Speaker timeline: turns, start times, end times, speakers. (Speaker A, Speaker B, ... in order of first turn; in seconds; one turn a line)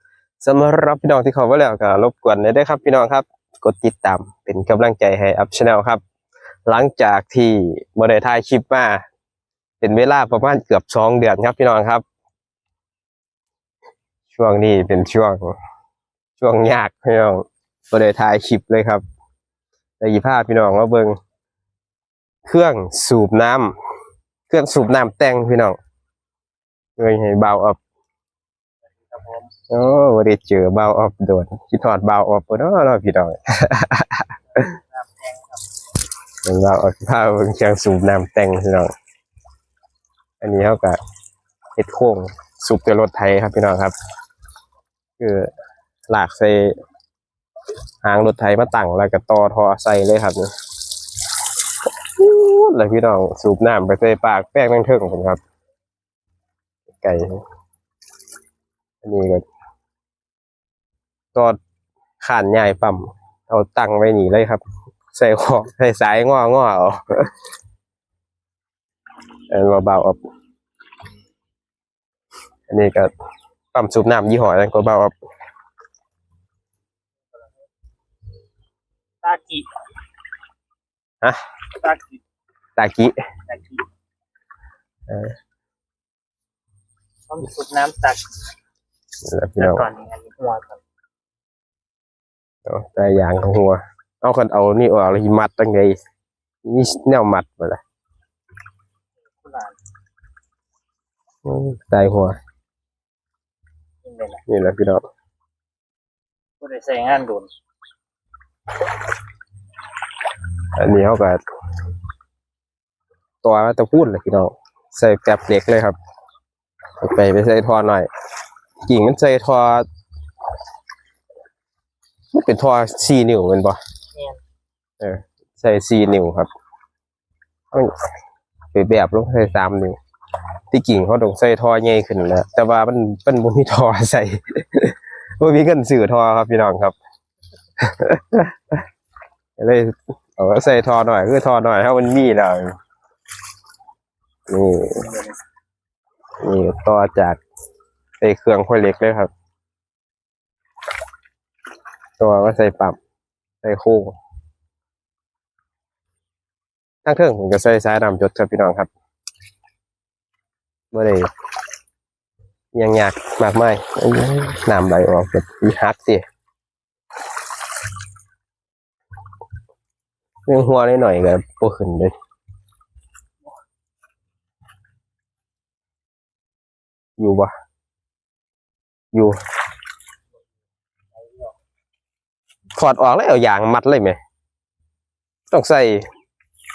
Speaker A: 0.4-6.0
Speaker A: 6.7-9.0
Speaker A: 9.8-12.0
Speaker A: 14.3-15.6
Speaker A: 16.4-19.0
Speaker A: 20.0-21.2
Speaker A: 22.5-23.7
Speaker A: 24.5-25.8
Speaker A: 27.0-27.8
Speaker B: 29.0-29.5
Speaker A: 29.7-34.7
Speaker B: 34.6-35.6
Speaker A: 36.5-38.9
Speaker A: 40.4-41.0
Speaker A: 41.8-43.9
Speaker A: 45.2-45.5
Speaker A: 46.1-46.8
Speaker A: 48.0-50.5
Speaker A: 52.2-55.4
Speaker A: 57.0-57.4
Speaker A: 59.0-59.4
Speaker A: 62.2-67.3
Speaker A: 69.5-70.2
Speaker A: 72.7-73.1
Speaker A: 73.7-75.1
Speaker B: 79.2-79.7
Speaker B: 81.8-82.2
Speaker A: 82.8-83.2
Speaker B: 83.5-83.8
Speaker A: 85.1-85.3
Speaker B: 87.3-88.2
Speaker A: 89.2-89.8
Speaker B: 89.6-90.8
Speaker A: 92.7-96.0
Speaker A: 96.7-97.8
Speaker B: 99.4-99.8
Speaker A: 101.5-102.4
Speaker B: 104.0-104.4
Speaker A: 104.5-105.0
Speaker B: 106.6-107.5
Speaker A: 110.8-111.4
Speaker A: 113.4-116.0
Speaker A: 117.0-118.1
Speaker A: 118.9-119.9
Speaker A: 122.3-123.8
Speaker A: 125.0-126.5
Speaker A: 128.7-130.0
Speaker A: 130.7-137.0
Speaker A: 137.8-138.8
Speaker A: 139.6-142.8
Speaker A: 144.5-145.1
Speaker B: 145.0-145.3
Speaker A: 146.4-147.4
Speaker A: 148.2-149.3
Speaker A: 152.2-153.0
Speaker A: 153.6-154.2
Speaker A: 157.1-158.9
Speaker A: 160.9-161.3
Speaker A: 162.7-166.2
Speaker A: 170.5-172.1
Speaker A: 177.2-177.5
Speaker B: 181.2-181.5
Speaker A: 182.8-184.2
Speaker A: 185.5-186.1